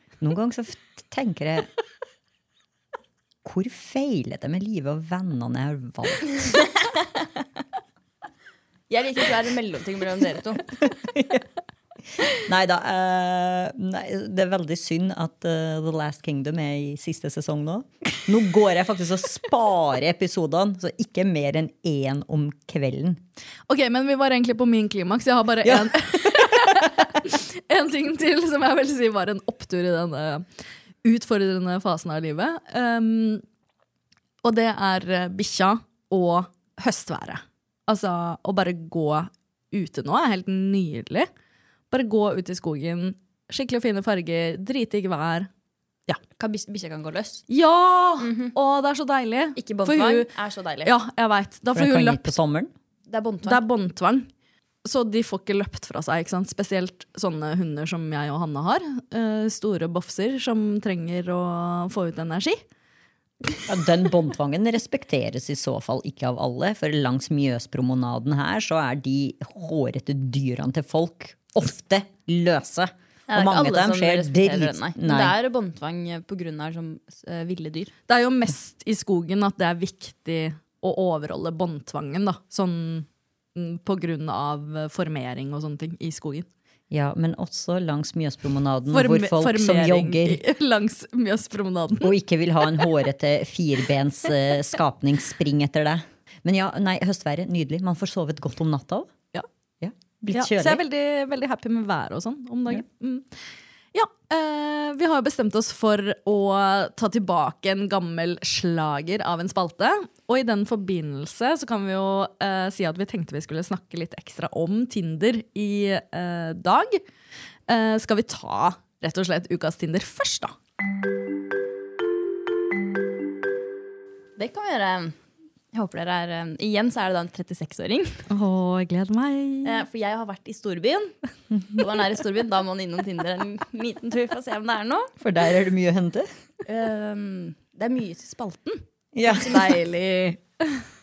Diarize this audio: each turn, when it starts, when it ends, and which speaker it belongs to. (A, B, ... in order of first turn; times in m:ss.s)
0:00.2-0:01.7 A
0:03.4-0:06.5 A
0:08.9-0:10.6 B
0:10.9-0:11.4 A
0:12.3-0:23.2 A
0:23.7-0:30.4 C
0:25.6-0:26.9 A
0:31.0-0:33.4 C
0:34.4-0:41.3 C
0:41.9-0:45.5 C
0:46.4-0:47.4 B
0:47.5-0:50.3 C
0:48.2-0:48.5 B
0:49.6-0:50.9 B
0:50.8-0:52.3 C
0:51.7-0:52.7 A
0:53.1-0:53.6 B
0:53.4-0:54.3 C
0:54.8-1:02.6 C
1:03.7-1:15.4 A
1:13.3-1:17.9 B
1:18.1-1:26.5 C
1:26.9-1:30.4 A
1:28.9-1:32.1 C
1:32.0-1:39.1 A
1:39.8-1:40.8 A
1:40.3-1:43.3 C
1:43.9-1:57.0 C
1:57.7-2:00.5 C
2:04.4-2:05.1 B
2:05.7-2:08.2 B
2:08.3-2:09.8 C
2:09.6-2:15.1 B
2:15.2-2:16.3 A
2:16.6-2:18.8 B
2:19.1-2:19.7 A
2:19.4-2:19.8 B
2:19.5-2:20.8 C